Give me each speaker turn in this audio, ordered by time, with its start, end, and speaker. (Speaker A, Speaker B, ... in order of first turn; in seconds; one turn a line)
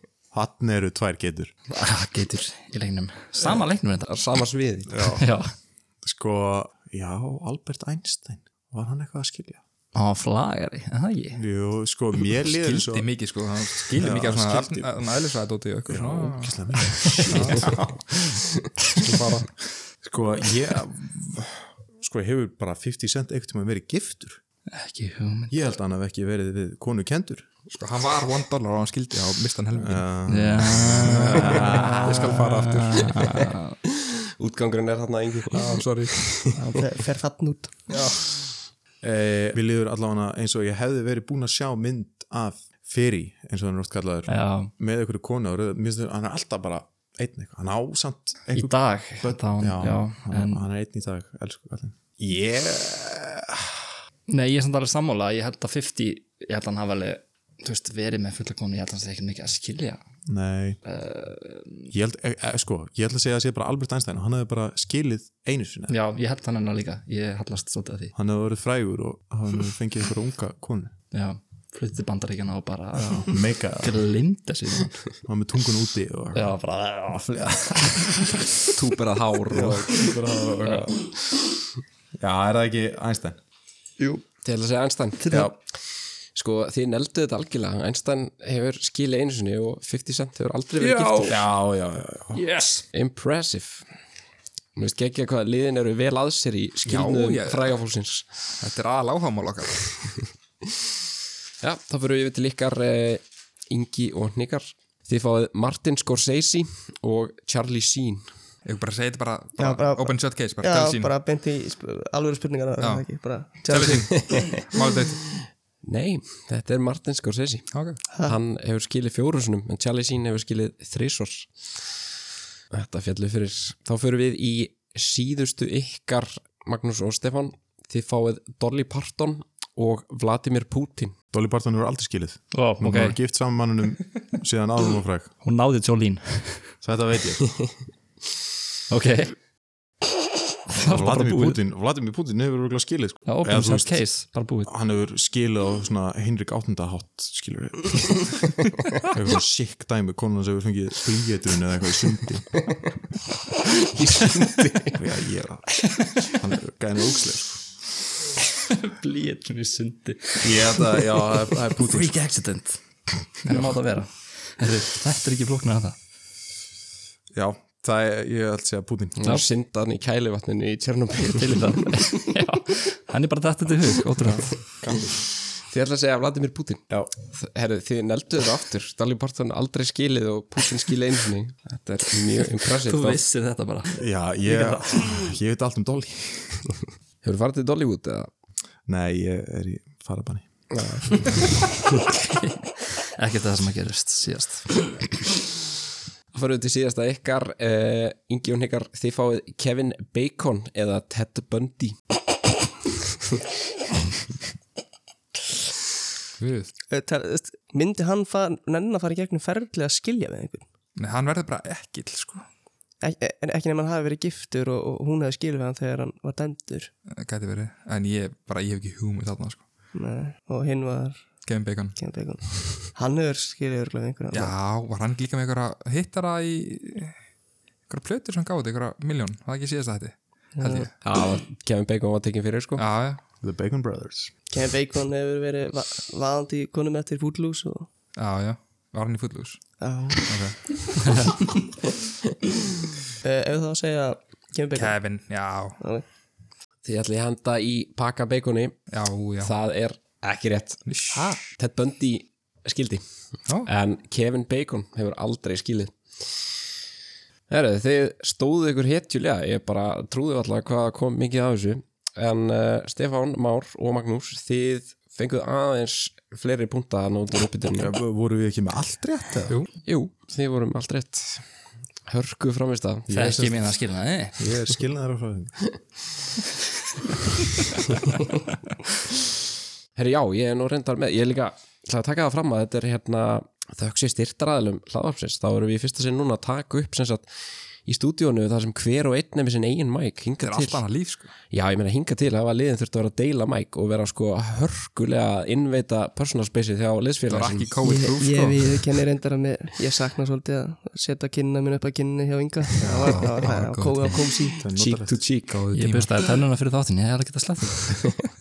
Speaker A: 0.3-1.5
Speaker B: 1.7-4.1
Speaker C: 4.1-5.1
Speaker A: 4.9-5.3
Speaker B: 5.0-5.5
Speaker A: 6.0-9.6
Speaker B: 9.9-11.4
Speaker A: 11.3-13.1
Speaker D: 12.5-16.6
Speaker A: 14.0-14.9
Speaker A: 15.9-17.9
Speaker D: 17.3-17.9
Speaker D: 18.9-19.6
Speaker A: 20.0-24.4
Speaker B: 24.7-25.5
Speaker A: 25.5-27.5
Speaker D: 27.7-30.2
Speaker A: 29.8-32.4
Speaker B: 30.3-33.8
Speaker D: 30.7-33.5
Speaker C: 34.0-36.5
Speaker D: 35.5-36.5
Speaker E: 36.5-37.7
Speaker D: 37.9-38.3
Speaker A: 39.0-53.9
Speaker B: 44.3-44.7
Speaker B: 48.5-50.6
Speaker B: 54.3-60.0
Speaker A: 60.3-60.8
Speaker B: 60.9-61.9
Speaker A: 61.9-66.0
Speaker B: 65.9-68.2
Speaker A: 68.2-70.9
Speaker B: 71.1-75.2
Speaker A: 73.0-74.0
Speaker A: 75.3-76.6
Speaker B: 76.3-78.0
Speaker A: 77.1-78.4
Speaker C: 78.7-80.1
Speaker A: 79.5-81.0
Speaker B: 80.5-80.9
Speaker A: 82.2-83.4
Speaker B: 84.0-84.2
Speaker C: 84.4-85.5
Speaker B: 85.2-85.5
Speaker C: 86.3-91.4
Speaker B: 90.8-91.5
Speaker A: 91.3-92.4
Speaker B: 92.3-92.8
Speaker C: 92.9-93.9
Speaker C: 94.8-98.3
Speaker D: 96.9-97.8
Speaker D: 98.6-100.0
Speaker C: 101.6-108.3
Speaker D: 108.7-111.1
Speaker E: 109.6-114.4
Speaker D: 112.8-115.4
Speaker C: 115.8-121.5
Speaker D: 117.7-118.0
Speaker C: 122.7-131.2
Speaker A: 131.3-135.3
Speaker B: 132.5-133.2
Speaker B: 135.4-136.7
Speaker A: 136.8-137.5
Speaker B: 138.9-139.4
Speaker B: 140.7-141.6
Speaker A: 140.8-144.0
Speaker B: 143.3-144.7
Speaker A: 144.7-152.5
Speaker C: 153.9-155.0
Speaker A: 154.9-157.6
Speaker B: 155.9-156.3
Speaker B: 158.7-162.8
Speaker A: 160.4-162.2
Speaker B: 163.4-166.0
Speaker A: 163.5-163.7
Speaker A: 167.3-169.3
Speaker C: 169.2-171.9
Speaker B: 171.2-174.7
Speaker A: 174.8-175.2
Speaker C: 175.7-183.2
Speaker B: 182.8-185.3
Speaker A: 184.0-186.7
Speaker C: 187.2-188.3
Speaker A: 188.9-190.5
Speaker C: 190.7-191.3
Speaker B: 192.2-195.1
Speaker C: 196.3-202.0
Speaker D: 206.4-206.7
Speaker E: 206.9-210.7
Speaker D: 211.0-212.4
Speaker E: 213.0-216.9
Speaker D: 217.1-219.7
Speaker E: 219.9-221.3
Speaker D: 221.5-222.0
Speaker E: 222.0-224.5
Speaker D: 224.3-227.1
Speaker D: 227.9-230.9
Speaker E: 230.6-230.9
Speaker C: 231.0-232.8
Speaker D: 232.8-233.2
Speaker A: 233.4-234.3
Speaker E: 234.5-237.9
Speaker D: 238.2-241.3
Speaker E: 239.8-240.8
Speaker E: 243.2-245.0
Speaker D: 244.8-245.8
Speaker C: 246.8-248.8
Speaker D: 248.9-249.5
Speaker C: 249.4-253.0
Speaker D: 250.9-251.4
Speaker C: 253.7-256.4
Speaker C: 257.5-267.9
Speaker A: 267.8-269.6
Speaker C: 269.8-271.5
Speaker C: 272.1-273.1
Speaker A: 273.1-273.8
Speaker B: 273.1-274.5
Speaker A: 274.4-275.6
Speaker C: 280.0-287.3
Speaker C: 287.9-290.8
Speaker D: 290.4-291.3
Speaker C: 291.5-297.7
Speaker D: 297.3-298.8
Speaker E: 297.8-304.6
Speaker A: 302.8-303.3
Speaker D: 302.8-304.2
Speaker A: 304.6-305.2
Speaker C: 304.7-305.6
Speaker D: 305.5-306.2
Speaker B: 305.7-307.9